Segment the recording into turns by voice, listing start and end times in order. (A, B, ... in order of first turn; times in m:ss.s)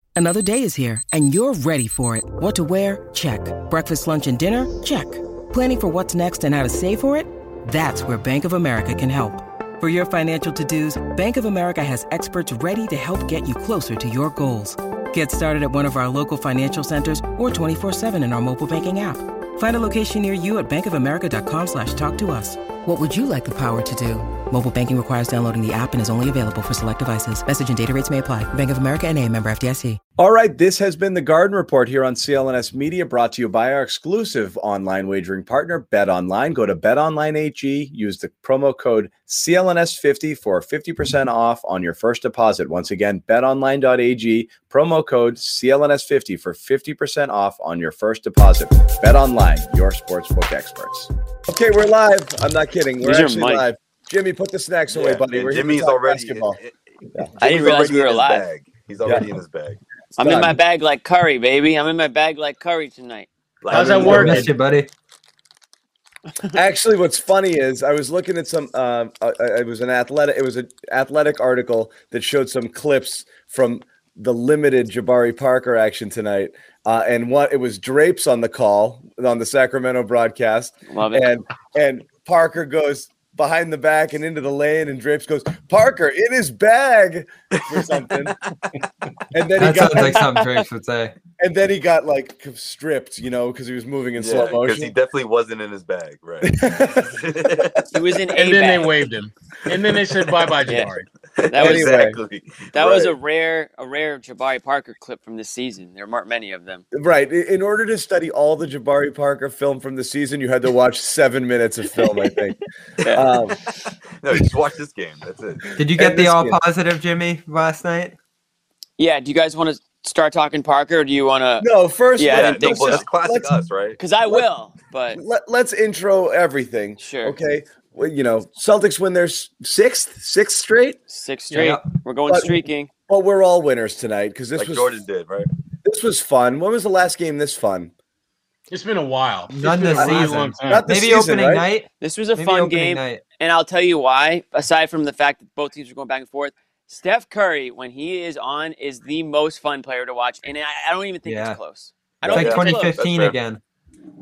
0:00.2-0:30.0 A
0:30.2-0:56.6 B
0:53.0-0:53.7 C
0:54.9-0:59.8 D
0:57.4-0:58.4 C
1:00.2-1:03.3 C
1:00.2-1:00.6 B
1:03.6-1:04.4 D
1:03.7-1:04.4 B
1:03.7-1:04.5 E
1:03.9-1:04.9 F
1:06.6-1:28.4 B
1:20.9-1:21.3 C
1:27.7-1:28.0 D
1:29.3-1:30.2 B
1:29.6-1:31.2 F
1:30.0-1:30.6 C
1:31.4-1:34.9 B
1:34.2-1:37.8 D
1:36.4-1:37.9 B
1:37.9-1:38.9 C
1:38.4-1:41.1 E
1:39.7-1:40.4 D
1:41.3-1:43.1 D
1:41.5-1:42.0 C
1:41.6-1:42.2 B
1:42.7-1:46.8 C
1:46.9-1:53.6 B
1:53.0-1:53.3 C
1:53.7-1:55.7 D
1:55.8-1:56.6 B
1:55.8-1:58.2 F
1:59.0-2:03.1 C
2:01.6-2:03.5 B
2:02.3-2:04.0 D
2:04.0-2:05.2 C
2:05.1-2:11.0 B
2:07.0-2:07.4 C
2:11.1-2:12.9 C
2:11.5-2:11.8 E
2:11.5-2:11.8 F
2:12.3-2:15.0 B
2:14.6-2:15.5 D
2:15.8-2:17.9 B
2:18.7-2:20.9 E
2:19.5-2:23.2 F
2:20.0-2:21.7 B
2:22.0-2:33.0 C
2:31.3-2:31.6 F
2:32.3-2:33.4 D
2:32.3-2:33.6 F